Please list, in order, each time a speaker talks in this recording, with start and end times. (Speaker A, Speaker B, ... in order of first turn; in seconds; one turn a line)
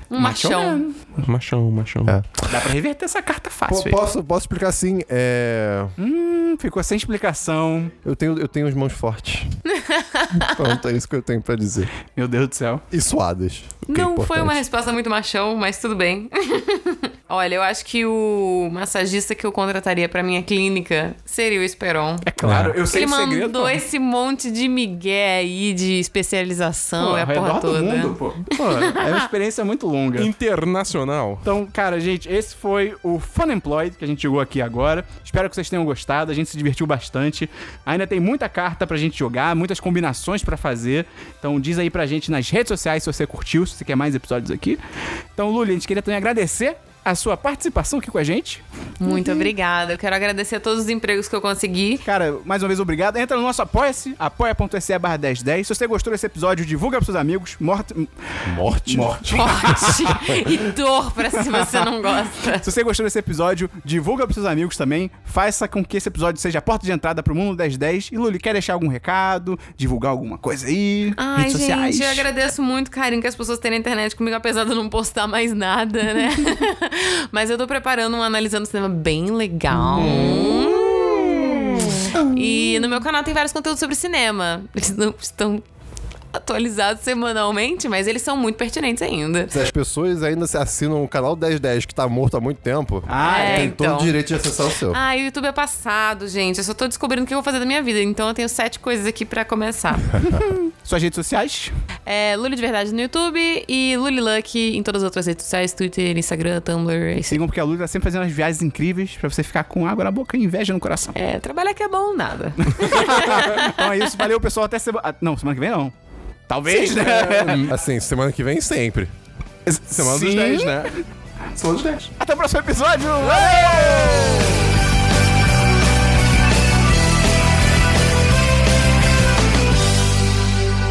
Speaker A: 0.1-0.8
Speaker B: 0.1-1.0
Speaker C: 1.2-2.2
Speaker B: 2.5-4.0
Speaker D: 3.7-6.0
Speaker B: 6.0-8.0
Speaker D: 8.0-9.6
Speaker A: 9.7-10.6
Speaker D: 10.3-11.9
Speaker B: 12.1-12.8
Speaker D: 12.9-14.6
Speaker A: 13.9-22.3
Speaker B: 22.2-23.8
Speaker D: 22.4-22.8
Speaker A: 22.9-29.0
Speaker B: 27.0-30.3
Speaker C: 30.2-31.5
Speaker B: 31.4-44.8
Speaker B: 45.4-49.5
Speaker A: 49.0-52.0
Speaker B: 52.0-60.2
Speaker D: 58.4-60.6
Speaker A: 59.2-62.7
Speaker B: 61.4-61.8
Speaker B: 62.6-72.3
Speaker A: 71.2-85.6
Speaker D: 79.9-82.3
Speaker A: 86.3-89.6
Speaker D: 89.5-95.0
Speaker B: 93.1-93.7
Speaker A: 93.2-94.2
Speaker A: 94.9-100.1
Speaker B: 100.2-101.8
Speaker A: 102.1-107.4
Speaker B: 107.3-111.1
Speaker A: 111.1-113.8
Speaker B: 112.7-115.9
Speaker B: 116.5-117.7
Speaker C: 116.7-117.7
Speaker D: 117.7-119.1
Speaker B: 119.7-120.9
Speaker C: 119.9-121.0
Speaker C: 121.6-122.1
Speaker B: 122.2-124.7
Speaker C: 123.5-124.4